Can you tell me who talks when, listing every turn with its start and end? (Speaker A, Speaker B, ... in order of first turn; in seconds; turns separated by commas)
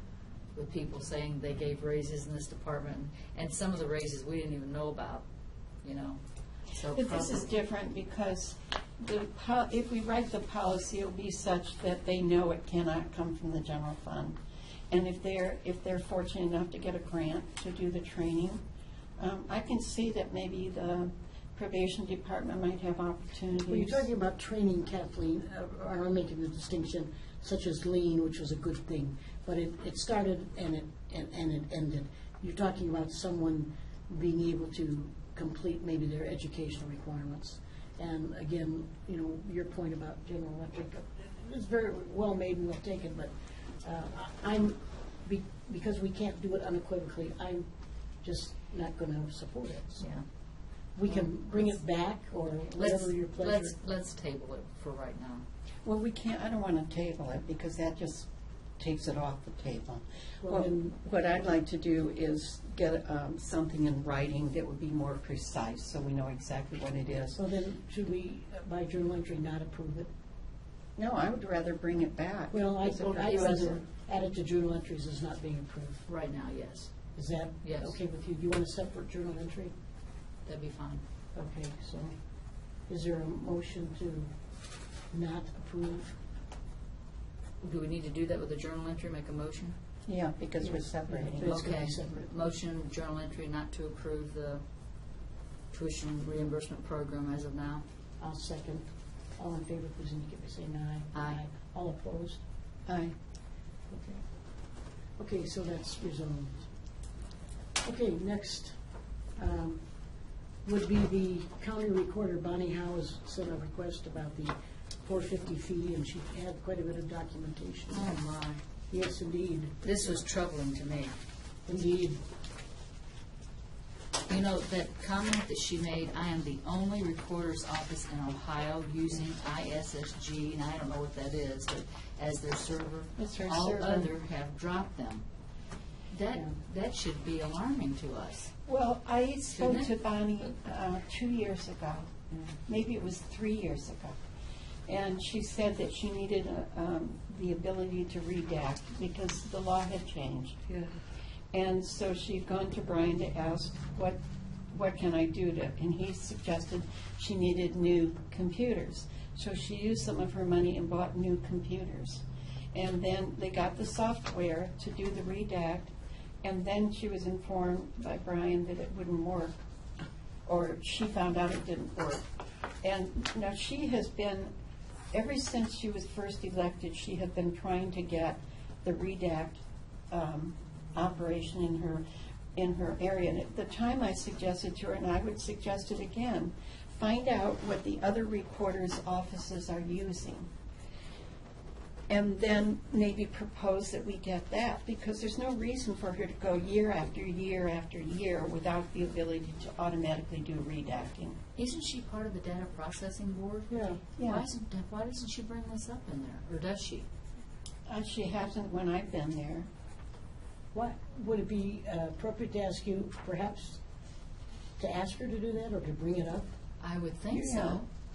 Speaker A: 0.5-5.2, Speaker A: 5.8-7.5, Speaker B: 6.9-14.4, Speaker B: 14.9-18.6, Speaker B: 19.2-24.1, Speaker C: 23.6-47.7, Speaker C: 48.2-50.0, Speaker A: 50.0-50.2, Speaker C: 51.0-53.8, Speaker A: 52.8-55.5, Speaker B: 55.8-58.3, Speaker B: 58.8-67.4, Speaker C: 60.4-61.0, Speaker C: 67.3-70.1, Speaker B: 71.0-73.8, Speaker C: 72.5-76.0, Speaker A: 73.1-73.8, Speaker A: 76.1-76.9, Speaker C: 77.2-79.7, Speaker A: 77.6-78.0, Speaker A: 80.5-81.0, Speaker C: 81.3-82.1, Speaker C: 82.9-84.3, Speaker C: 85.1-86.2, Speaker A: 87.6-89.8, Speaker B: 90.1-92.0, Speaker C: 90.6-92.3, Speaker A: 91.4-94.6, Speaker A: 95.7-97.8, Speaker C: 98.2-102.4, Speaker A: 101.1-101.4, Speaker B: 102.9-103.1, Speaker C: 103.9-104.2, Speaker C: 105.2-106.7, Speaker C: 107.8-108.8, Speaker C: 109.4-109.8, Speaker C: 110.6-118.1, Speaker A: 117.9-118.6, Speaker C: 118.9-120.2, Speaker A: 119.8-121.1, Speaker C: 121.7-122.2, Speaker A: 124.3-135.2, Speaker B: 133.2-134.1, Speaker A: 136.1-138.5, Speaker B: 138.7-142.1, Speaker A: 139.5-139.9, Speaker B: 142.7-144.2, Speaker B: 144.9-150.7, Speaker B: 151.5-154.2, Speaker B: 154.7-165.9, Speaker B: 166.4-169.5, Speaker B: 170.4-172.2, Speaker B: 172.8-174.5, Speaker B: 175.1-179.6, Speaker B: 180.1-182.0, Speaker B: 182.6-190.5, Speaker B: 192.1-201.4, Speaker A: 201.6-207.1, Speaker C: 203.7-204.0, Speaker B: 204.2-204.5, Speaker B: 207.9-209.7, Speaker C: 210.7-213.8, Speaker C: 214.8-216.4, Speaker A: 216.8-217.8, Speaker B: 217.3-217.8